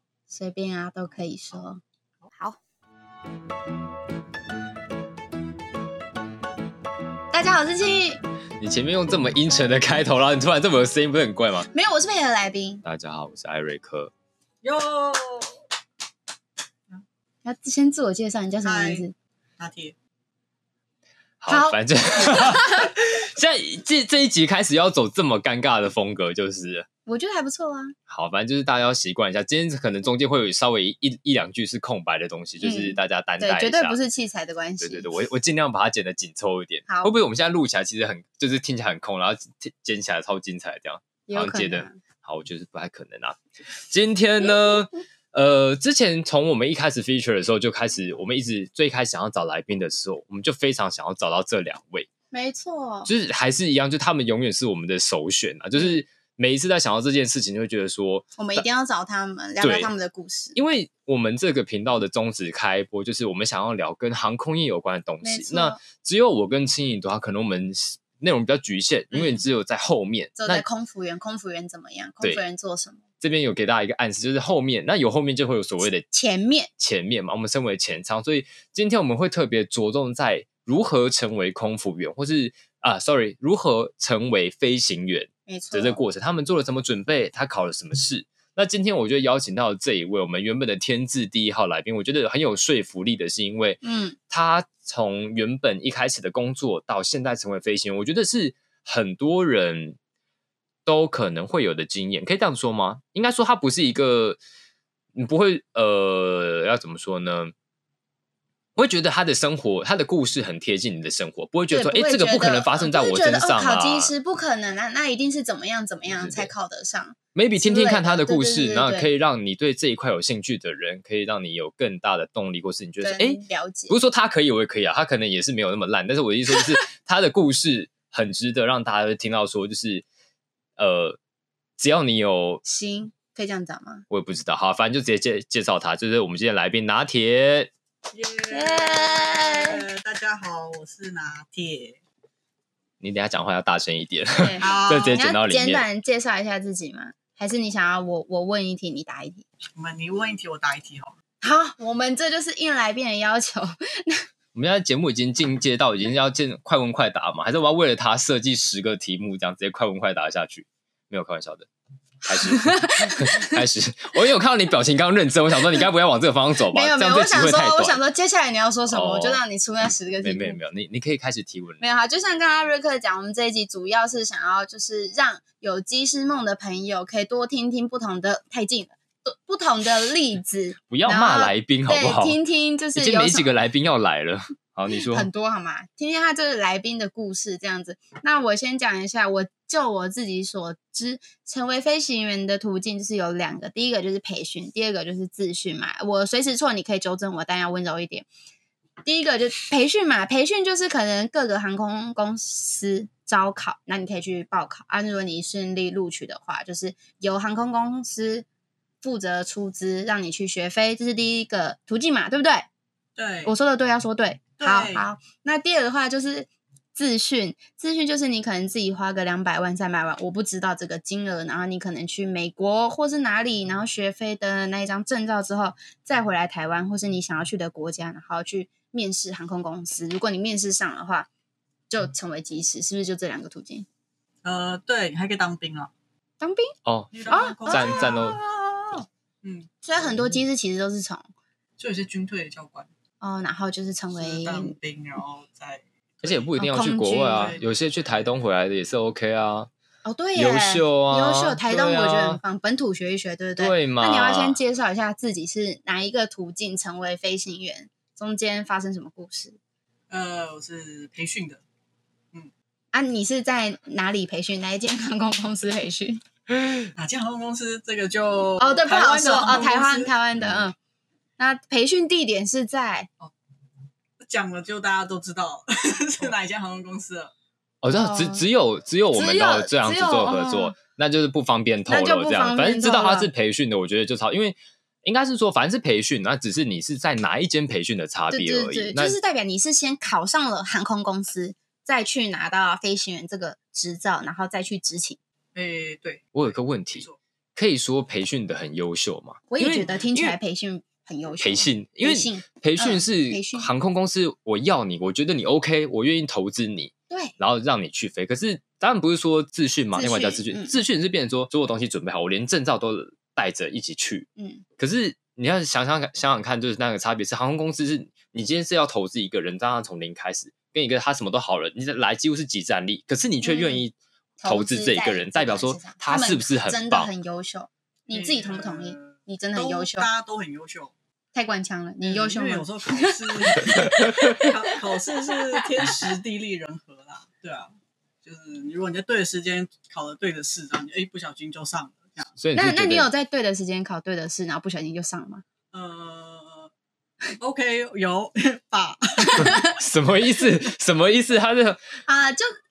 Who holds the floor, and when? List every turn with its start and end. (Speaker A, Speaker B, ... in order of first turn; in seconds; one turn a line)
Speaker A: 0.3-1.8
Speaker B: 1.1-1.6
Speaker A: 2.3-2.6
Speaker A: 7.3-8.2
Speaker C: 8.6-11.7
Speaker A: 11.7-12.8
Speaker C: 12.8-14.1
Speaker B: 14.6-15.6
Speaker A: 17.4-19.1
Speaker B: 18.6-19.0
Speaker B: 19.6-19.9
Speaker C: 21.4-26.9
Speaker A: 21.5-22.9
Speaker A: 27.1-27.9
Speaker C: 28.1-34.0
Speaker A: 32.6-35.2
Speaker C: 34.8-52.1
Speaker A: 36.9-37.2
Speaker A: 41.3-42.0
Speaker A: 52.3-53.1
Speaker C: 53.0-58.6
Speaker A: 55.7-56.0
Speaker A: 58.4-60.6
Speaker C: 59.6-59.9
Speaker C: 60.5-70.6
Speaker A: 65.2-65.8
Speaker A: 69.1-69.4
Speaker A: 70.3-73.0
Speaker C: 73.2-76.1
Speaker A: 76.1-76.7
Speaker C: 76.8-100.0
Speaker A: 85.5-86.0
Speaker A: 93.8-94.2
Speaker C: 100.8-104.4
Speaker C: 105.1-107.5
Speaker C: 108.8-114.1
Speaker A: 111.7-119.1
Speaker C: 116.1-116.5
Speaker C: 117.3-130.0
Speaker A: 123.0-124.0
Speaker C: 130.8-131.2
Speaker C: 131.8-132.6
Speaker A: 132.6-134.0
Speaker C: 134.1-137.7
Speaker B: 138.1-142.0
Speaker A: 138.5-139.8
Speaker C: 143.0-145.8
Speaker A: 144.3-149.4
Speaker B: 144.6-145.2
Speaker B: 149.7-151.1
Speaker A: 151.4-154.2
Speaker C: 154.5-161.7
Speaker A: 162.2-163.6
Speaker C: 162.2-168.0
Speaker A: 166.7-170.6
Speaker C: 168.9-171.8
Speaker A: 171.8-183.5
Speaker C: 180.9-182.4
Speaker C: 182.9-185.3
Speaker A: 184.9-198.2
Speaker A: 199.0-208.4
Speaker A: 209.0-212.7
Speaker B: 213.2-213.5
Speaker A: 213.4-231.3
Speaker B: 214.6-215.1
Speaker A: 231.9-233.9
Speaker B: 234.4-235.9
Speaker A: 236.4-236.7
Speaker C: 236.8-237.1
Speaker B: 237.1-239.7
Speaker A: 237.3-238.7
Speaker C: 237.7-238.4
Speaker A: 239.8-241.3
Speaker B: 241.8-242.9
Speaker A: 243.2-244.8
Speaker B: 244.1-246.5
Speaker C: 246.2-249.7
Speaker A: 246.6-247.5
Speaker B: 247.3-248.1
Speaker A: 250.0-259.6
Speaker C: 250.3-252.4
Speaker C: 253.6-254.6
Speaker B: 260.1-261.6
Speaker A: 262.9-266.2
Speaker B: 266.9-270.1
Speaker A: 268.6-270.8
Speaker C: 270.4-270.6
Speaker A: 271.4-273.1
Speaker B: 274.2-277.3
Speaker C: 277.8-289.1
Speaker A: 277.9-278.4
Speaker A: 279.1-280.8
Speaker A: 281.9-283.3
Speaker A: 288.3-295.2
Speaker B: 295.5-297.2
Speaker C: 296.3-300.4
Speaker A: 299.5-303.7
Speaker C: 301.4-327.1
Speaker A: 309.9-310.7
Speaker A: 314.4-314.6
Speaker A: 323.4-323.8
Speaker A: 324.4-330.1
Speaker B: 328.1-330.9
Speaker A: 331.3-336.0
Speaker B: 332.0-342.4
Speaker C: 334.0-334.3
Speaker C: 342.4-343.1
Speaker A: 342.5-345.4
Speaker B: 345.7-346.7
Speaker B: 347.4-349.5
Speaker A: 349.2-349.7
Speaker C: 349.4-351.8
Speaker A: 352.1-352.5